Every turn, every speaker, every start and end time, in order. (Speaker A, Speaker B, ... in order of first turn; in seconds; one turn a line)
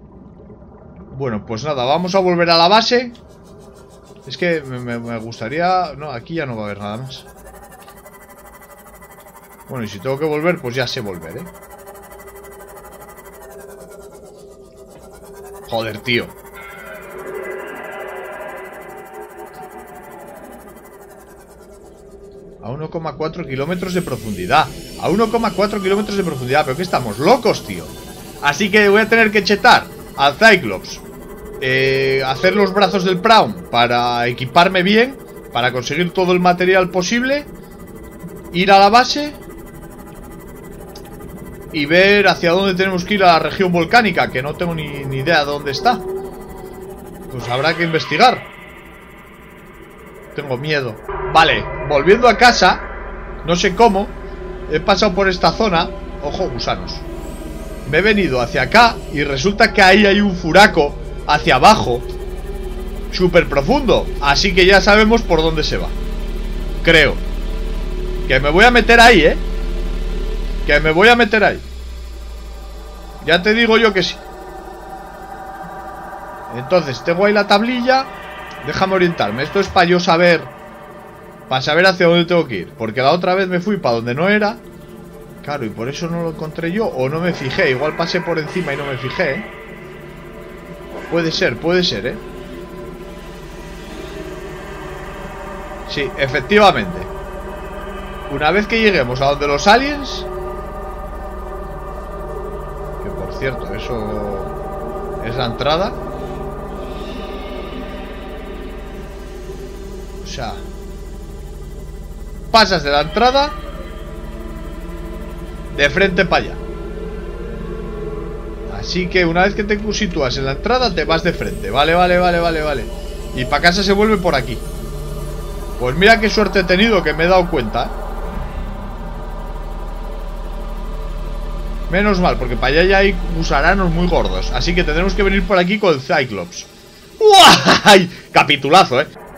Speaker A: 1.1-3.1
Speaker A: 4.2-7.2
Speaker A: 9.7-11.5
Speaker A: 15.7-16.3
Speaker A: 22.6-31.0
Speaker A: 31.6-37.5
Speaker A: 38.5-39.4
Speaker A: 41.7-46.0
Speaker A: 47.3-48.5
Speaker A: 50.3-52.8
Speaker A: 53.4-54.2
Speaker A: 54.7-57.0
Speaker A: 57.9-62.1
Speaker A: 63.1-66.0
Speaker A: 66.8-67.2
Speaker A: 68.2-69.4
Speaker A: 70.6-71.7
Speaker A: 73.2-74.2
Speaker A: 76.5-78.1
Speaker A: 78.6-80.5
Speaker A: 81.5-84.6
Speaker A: 85.4-89.5
Speaker A: 91.1-92.2
Speaker A: 95.9-97.1
Speaker A: 98.3-100.3
Speaker A: 103.0-104.5
Speaker A: 105.2-106.0
Speaker A: 110.2-110.6
Speaker A: 112.5-113.6
Speaker A: 115.7-116.6
Speaker A: 118.7-124.6
Speaker A: 125.8-127.9
Speaker A: 131.9-136.7
Speaker A: 137.2-139.1